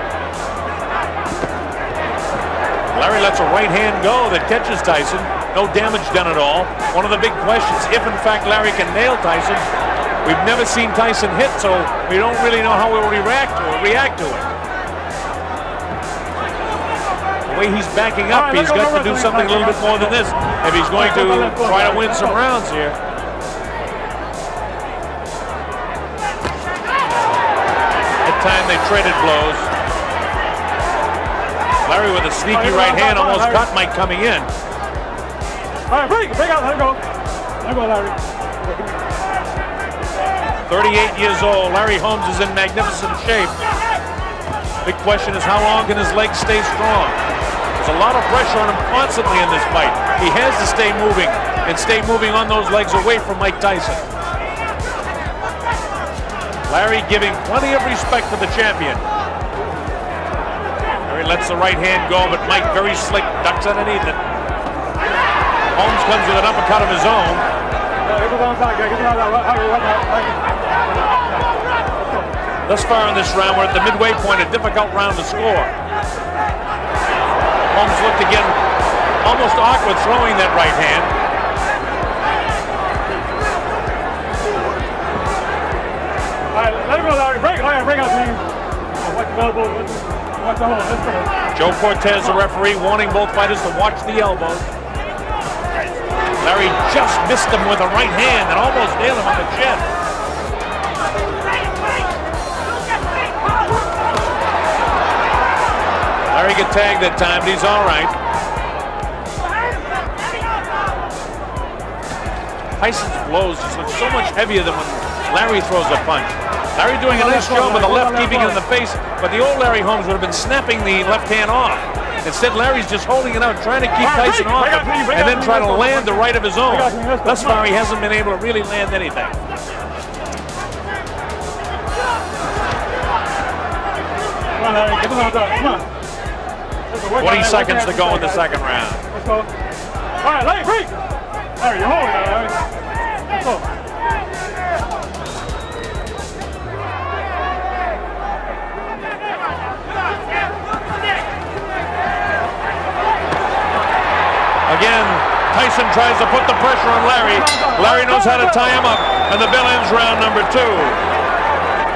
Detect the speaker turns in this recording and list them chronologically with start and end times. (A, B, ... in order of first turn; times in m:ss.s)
0:02.9-0:09.6 A
0:10.2-0:14.5 A
0:17.4-0:23.0 A
0:18.3-0:20.2 B
0:21.0-0:22.4 B
0:28.2-0:29.7 A
0:31.8-0:34.5 A
0:32.5-0:33.7 B
0:35.9-0:37.0 B
0:37.6-0:39.0 B
0:40.7-0:43.6 A
0:44.8-0:47.2 A
0:47.8-0:54.0 A
0:56.7-0:59.0 A
1:01.1-1:04.2 A
1:05.7-1:07.4 A
1:08.1-1:12.3 B
1:12.7-1:15.7 A
1:17.7-1:18.6 A
1:19.2-1:21.1 A
1:26.5-1:28.5 B
1:29.0-1:31.4 B
1:31.5-1:34.7 A
1:36.4-1:39.9 A
1:46.3-1:48.2 A
1:52.8-2:09.4 A
1:57.1-1:58.6 B
2:04.0-2:07.6 B
2:14.6-2:15.9 B
2:16.9-2:18.4 B
2:17.1-2:19.0 A
2:19.1-2:19.5 B
2:20.2-2:21.0 B
2:21.6-2:22.6 B
2:23.3-2:23.6 B
2:34.7-2:41.0 A
2:37.4-2:38.1 B